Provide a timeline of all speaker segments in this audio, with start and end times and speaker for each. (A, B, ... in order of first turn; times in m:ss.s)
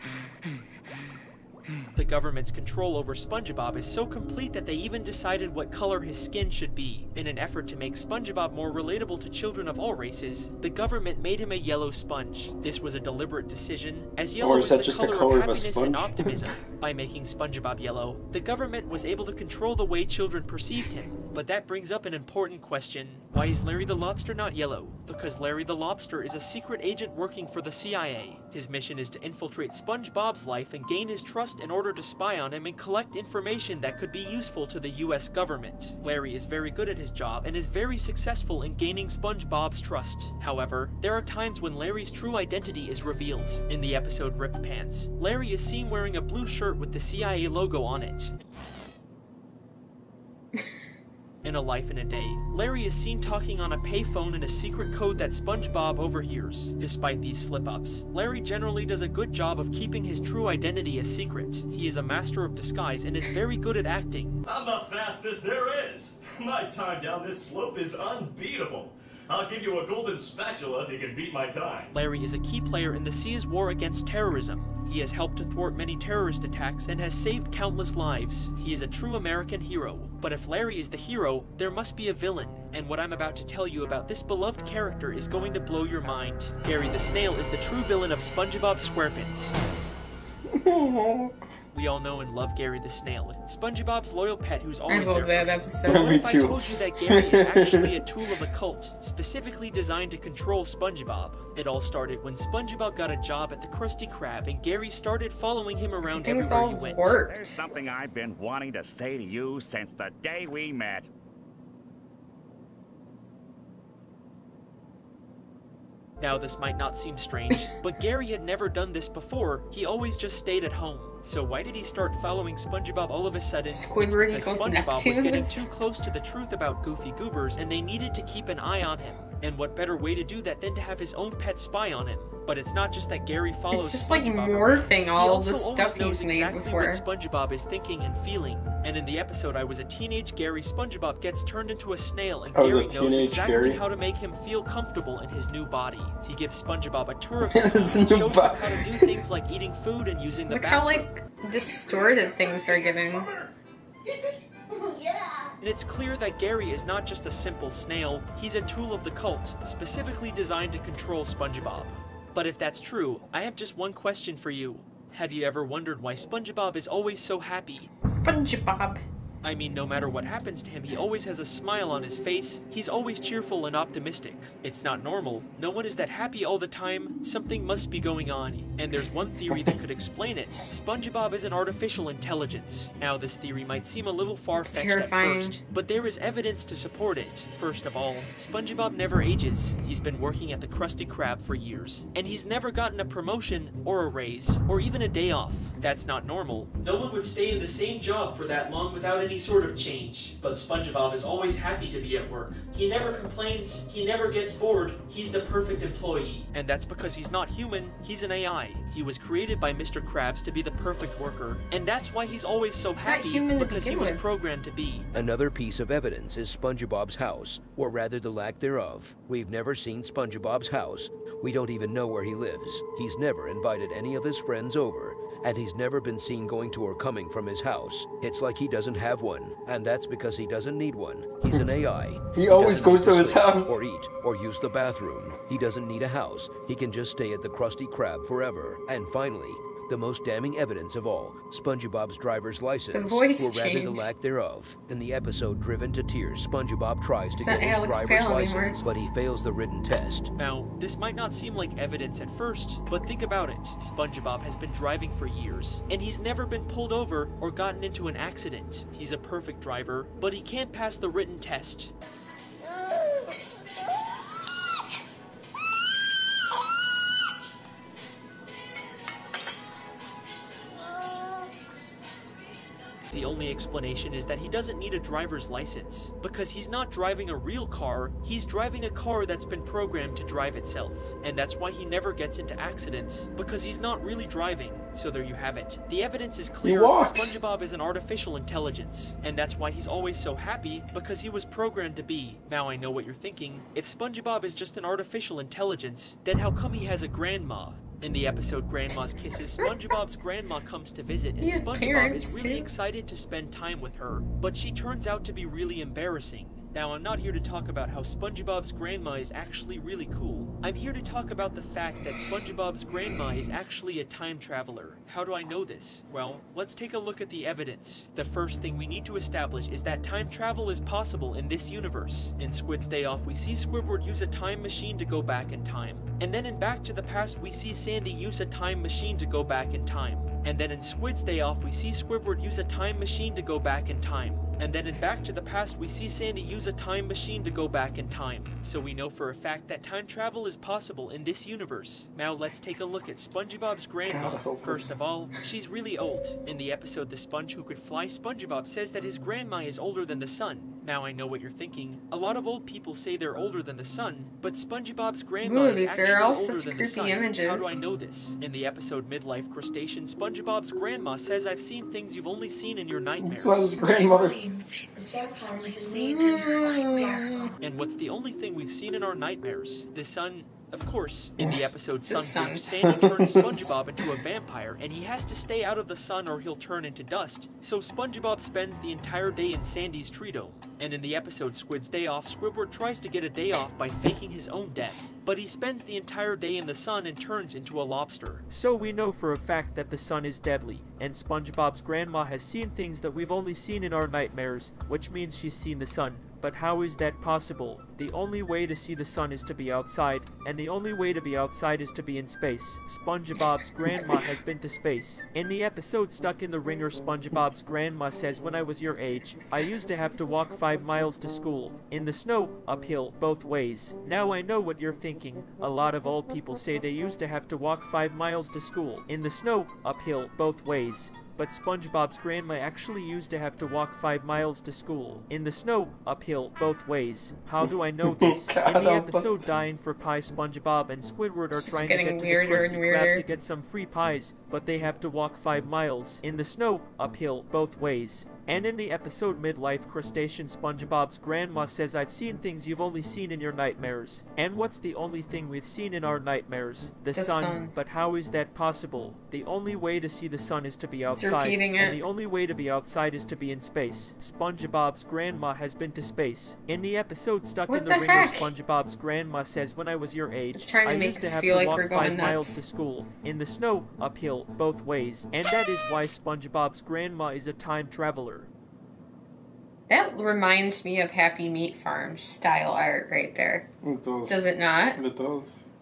0:01.9-0:48.3 A
0:14.4-0:16.5 B
0:51.4-1:04.4 A
1:04.4-1:11.9 C
1:11.9-1:29.6 A
1:30.5-1:31.3 B
1:31.7-1:47.2 A
1:34.9-1:36.1 D
1:35.8-1:37.8 B
1:46.1-1:47.6 D
1:47.3-1:51.1 E
1:56.2-2:31.1 A
2:03.7-2:05.6 D
2:13.7-2:17.0 D
2:22.5-2:23.8 B
2:27.5-2:29.0 B
2:30.5-2:33.3 D
2:35.6-2:47.9 A
2:48.1-2:49.0 D
2:49.4-3:35.1 A
3:04.6-3:05.6 D
3:33.0-3:34.2 D
3:35.1-4:10.3 F
3:52.3-3:53.8 B
4:02.9-4:04.1 D
4:07.4-4:08.8 D
4:10.3-4:21.9 A
4:33.1-6:03.7 A
4:46.6-4:47.4 B
5:01.4-5:02.6 D
5:44.0-5:44.9 B
5:55.4-5:57.8 D
6:03.2-6:04.4 B
6:03.8-6:07.5 G
6:05.8-6:07.5 D
6:07.6-7:48.5 A
6:11.4-6:11.7 B
6:12.1-6:12.7 D
6:12.8-6:13.7 B
7:07.6-7:09.4 B
7:11.5-7:13.2 D
7:27.1-7:27.7 D
7:31.1-7:32.0 D
7:37.7-7:38.5 D
7:40.5-7:42.6 D
7:49.9-7:53.7 D
7:53.8-7:54.4 B
7:54.3-7:55.0 D
7:55.0-7:55.6 B